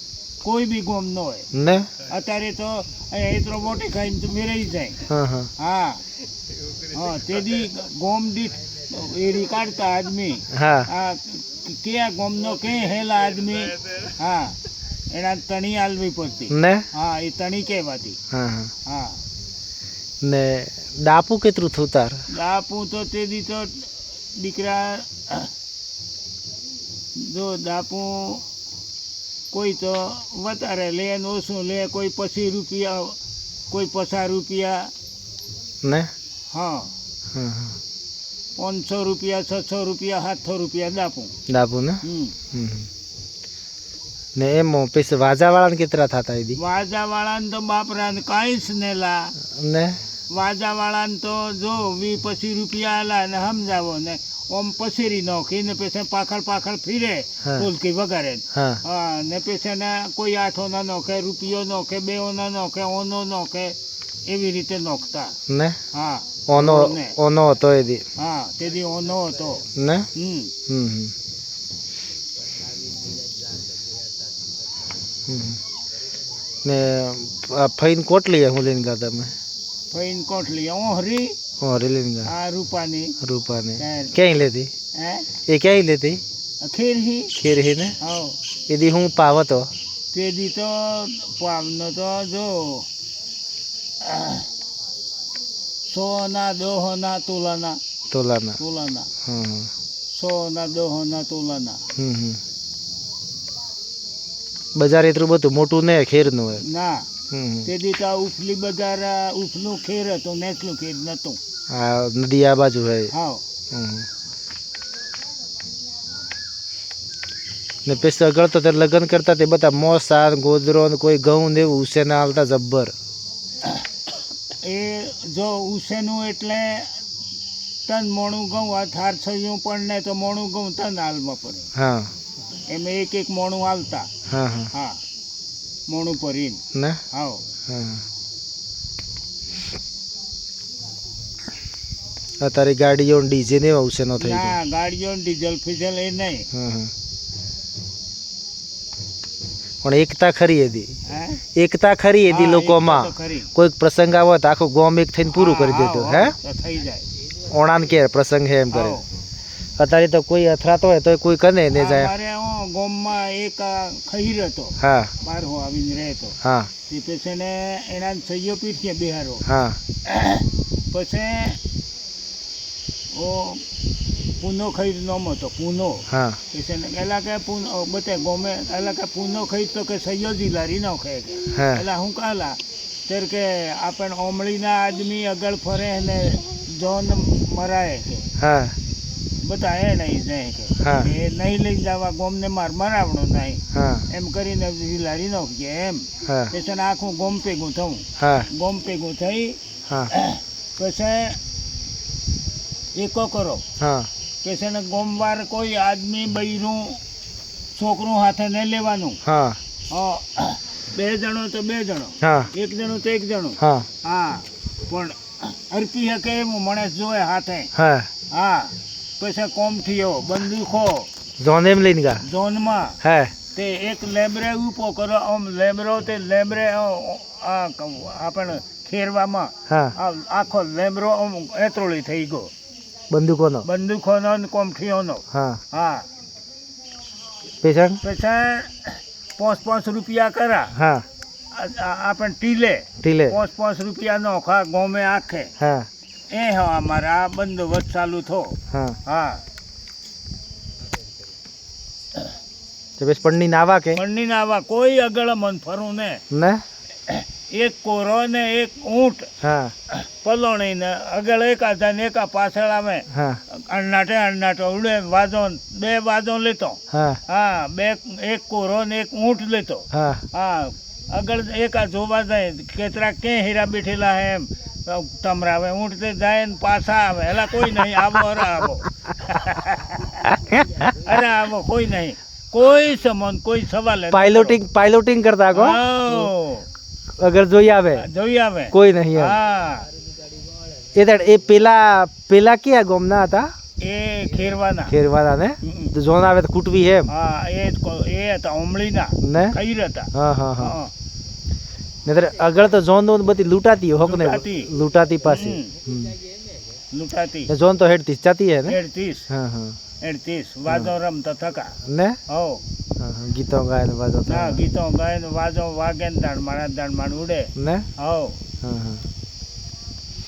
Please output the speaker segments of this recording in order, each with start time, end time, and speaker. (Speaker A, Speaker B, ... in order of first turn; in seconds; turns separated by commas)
Speaker A: 0.4-1.5, Speaker B: 1.5-1.9, Speaker A: 2.1-5.1, Speaker B: 5.1-5.5, Speaker A: 5.6-6.0, Speaker A: 6.9-14.6, Speaker B: 10.5-10.9, Speaker A: 15.1-18.2, Speaker B: 16.5-16.9, Speaker B: 18.3-18.7, Speaker A: 18.9-19.2, Speaker B: 20.2-22.2, Speaker A: 22.3-25.5, Speaker A: 27.2-28.5, Speaker A: 29.5-33.2, Speaker A: 33.7-34.9, Speaker B: 35.8-36.1, Speaker A: 36.5-36.9, Speaker B: 37.3-37.8, Speaker A: 38.6-41.4, Speaker B: 41.5-42.0, Speaker A: 42.0-42.4, Speaker B: 42.5-42.9, Speaker B: 44.4-46.6, Speaker A: 46.5-49.4, Speaker B: 49.5-50.0, Speaker A: 50.3-65.4, Speaker B: 58.5-58.8, Speaker B: 65.5-65.8, Speaker A: 65.9-67.2, Speaker B: 66.5-68.0, Speaker A: 68.2-70.5, Speaker B: 69.8-70.1, Speaker B: 70.7-71.1, Speaker B: 75.3-75.6, Speaker B: 76.6-79.3, Speaker A: 79.9-81.4, Speaker B: 81.6-82.3, Speaker A: 82.2-83.2, Speaker B: 83.2-84.7, Speaker A: 83.8-84.2, Speaker A: 85.0-85.3, Speaker B: 85.5-86.2, Speaker A: 86.6-87.3, Speaker B: 87.3-88.0, Speaker A: 88.0-88.4, Speaker B: 88.7-89.7, Speaker A: 90.1-92.9, Speaker A: 94.0-94.5, Speaker A: 95.9-97.8, Speaker B: 98.1-98.6, Speaker A: 98.6-99.1, Speaker B: 99.2-99.7, Speaker A: 100.1-101.8, Speaker B: 102.0-102.4, Speaker B: 104.8-106.6, Speaker A: 106.6-107.1, Speaker B: 107.3-107.7, Speaker A: 107.7-111.4, Speaker B: 111.7-113.1, Speaker A: 113.1-113.4, Speaker B: 113.7-114.1, Speaker B: 117.9-122.9, Speaker A: 124.6-126.9, Speaker A: 127.9-131.7, Speaker B: 131.8-132.1, Speaker A: 132.7-134.1, Speaker B: 134.3-134.7, Speaker A: 134.7-135.0, Speaker A: 135.9-136.6, Speaker B: 136.7-137.0, Speaker A: 137.1-137.4, Speaker B: 137.7-138.0, Speaker B: 142.4-144.6, Speaker A: 144.2-146.5, Speaker B: 146.5-146.9, Speaker B: 149.8-150.9, Speaker A: 151.1-151.4, Speaker B: 151.6-156.3, Speaker A: 152.3-153.5, Speaker A: 155.3-157.1, Speaker B: 157.5-159.0, Speaker A: 158.7-159.1, Speaker B: 159.8-162.1, Speaker A: 161.7-169.4, Speaker B: 164.8-165.1, Speaker B: 166.4-166.7, Speaker B: 169.5-169.8, Speaker A: 170.1-171.6, Speaker A: 173.1-173.6, Speaker A: 174.4-188.3, Speaker B: 176.1-176.4, Speaker B: 181.5-181.8, Speaker B: 188.4-188.8, Speaker A: 189.4-201.4, Speaker B: 190.8-191.1, Speaker B: 193.7-194.1, Speaker B: 196.2-196.5, Speaker B: 198.2-198.5, Speaker A: 202.9-203.6, Speaker B: 203.8-204.1, Speaker A: 204.4-207.0, Speaker A: 207.8-209.2, Speaker B: 209.2-209.6, Speaker A: 209.9-217.7, Speaker B: 212.2-212.5, Speaker B: 213.6-213.9, Speaker B: 217.8-218.1, Speaker A: 218.3-221.1, Speaker B: 221.4-222.2, Speaker A: 222.2-223.0, Speaker B: 223.0-223.3, Speaker A: 223.5-232.5, Speaker B: 229.7-229.9, Speaker B: 233.1-233.7, Speaker A: 233.6-236.1, Speaker B: 235.3-235.6, Speaker B: 237.6-238.0, Speaker A: 238.0-240.8, Speaker B: 240.8-241.1, Speaker A: 241.5-245.5, Speaker B: 243.0-243.4, Speaker B: 245.6-245.9, Speaker A: 246.3-249.4, Speaker B: 248.7-249.0, Speaker B: 253.0-254.0, Speaker A: 253.9-256.2, Speaker B: 256.3-256.6, Speaker A: 257.1-259.3, Speaker B: 259.4-259.7, Speaker A: 259.9-284.6, Speaker B: 263.1-263.4, Speaker B: 266.9-267.2, Speaker B: 269.9-270.2, Speaker B: 280.4-281.2, Speaker B: 284.1-286.3, Speaker A: 285.5-286.7, Speaker B: 287.2-288.1, Speaker A: 288.0-289.9, Speaker B: 288.7-289.4, Speaker B: 290.9-293.5, Speaker A: 293.8-295.0, Speaker B: 294.9-297.1, Speaker A: 295.6-295.9, Speaker A: 297.1-300.9, Speaker B: 299.2-299.6, Speaker B: 300.1-300.8, Speaker B: 302.1-306.2, Speaker A: 304.1-304.7, Speaker A: 305.2-305.8, Speaker A: 306.9-307.5, Speaker B: 307.5-308.8, Speaker A: 308.7-309.3, Speaker B: 309.3-309.8, Speaker A: 310.0-312.6, Speaker B: 311.9-312.2, Speaker B: 313.0-314.6, Speaker A: 314.3-318.4, Speaker B: 317.6-317.9, Speaker B: 318.6-319.1